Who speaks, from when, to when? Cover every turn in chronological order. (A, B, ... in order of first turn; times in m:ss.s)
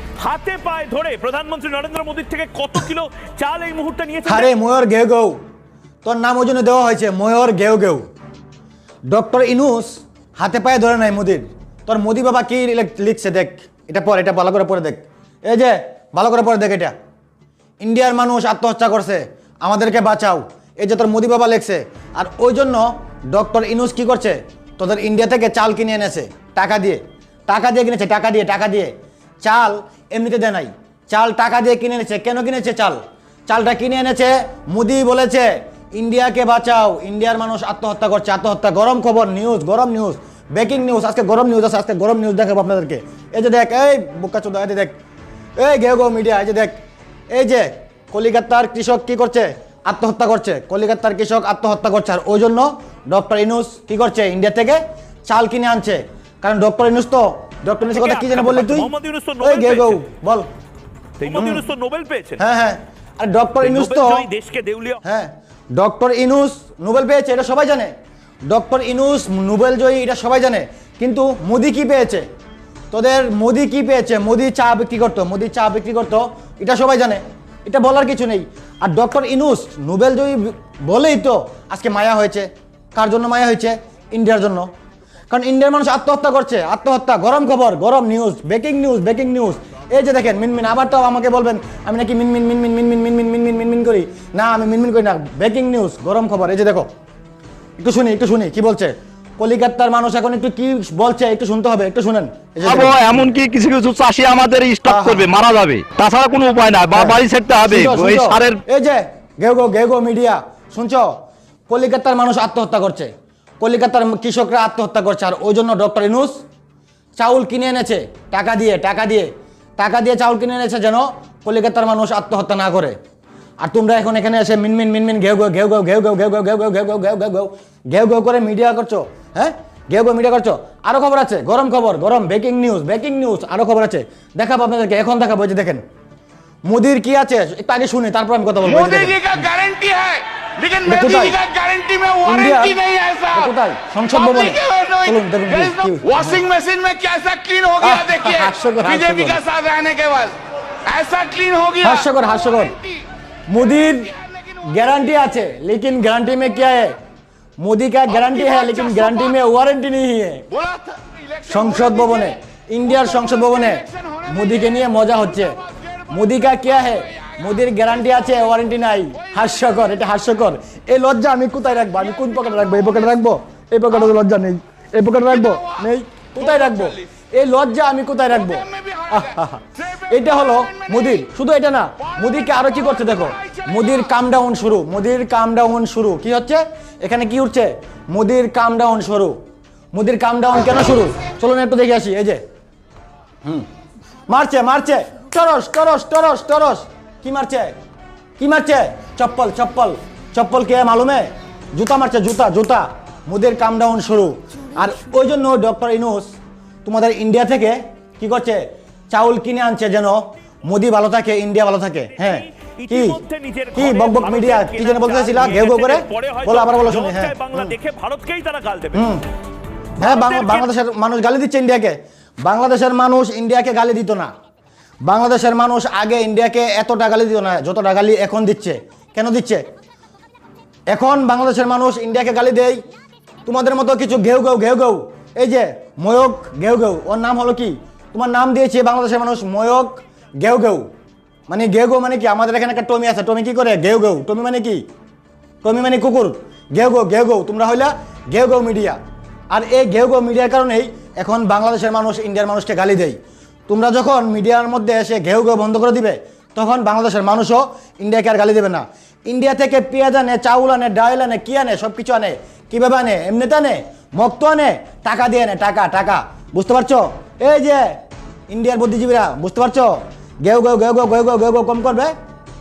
0:00.2-0:04.5 A
0:04.3-0:05.4 B
0:06.0-0:08.0 B
0:09.1-0:16.9 B
0:17.8-0:28.9 B
0:29.4-0:44.9 B
0:45.6-0:46.8 B
0:47.3-0:58.9 B
0:57.9-1:00.0 A
0:59.4-1:00.5 B
1:01.2-1:02.4 A
1:01.2-1:01.6 B
1:02.4-1:04.3 B
1:03.6-1:05.0 A
1:05.0-1:07.9 B
1:08.5-1:12.2 B
1:12.9-1:24.7 B
1:25.3-1:36.8 B
1:37.8-1:43.2 B
1:42.6-1:48.6 C
1:44.8-1:45.3 B
1:46.9-1:51.1 B
1:51.7-1:56.4 B
1:57.2-2:03.0 B
2:03.6-2:15.8 B
2:16.6-2:19.5 B
2:18.6-2:23.5 D
2:20.9-2:21.4 B
2:22.2-2:26.5 B
2:24.1-2:32.1 D
2:27.8-2:29.4 B
2:31.8-2:32.8 B
2:33.5-2:34.1 B
2:33.9-2:34.6 D
2:34.6-2:37.0 B
2:37.6-2:40.5 B
2:38.2-2:39.3 D
2:40.5-2:42.3 D
2:41.5-3:09.4 B
2:43.0-2:46.2 D
2:46.8-2:47.5 D
2:48.0-2:48.5 D
2:52.1-2:53.0 D
2:55.3-2:55.9 D
2:56.4-2:57.0 D
2:58.3-2:59.4 D
2:59.9-3:01.2 D
3:02.0-3:04.1 D
3:09.9-3:12.4 B
3:14.3-3:17.7 B
3:18.4-3:33.2 B
3:32.2-3:39.1 A
3:33.8-3:37.7 B
3:38.9-3:39.2 B
3:40.0-3:40.7 A
3:40.0-3:44.3 B
3:45.0-3:49.6 B
3:50.9-3:52.8 B
3:53.5-4:00.8 B
4:01.5-4:04.8 B
4:05.6-4:09.0 B
4:09.5-4:28.0 B
4:28.5-4:29.9 B
4:30.4-4:32.1 B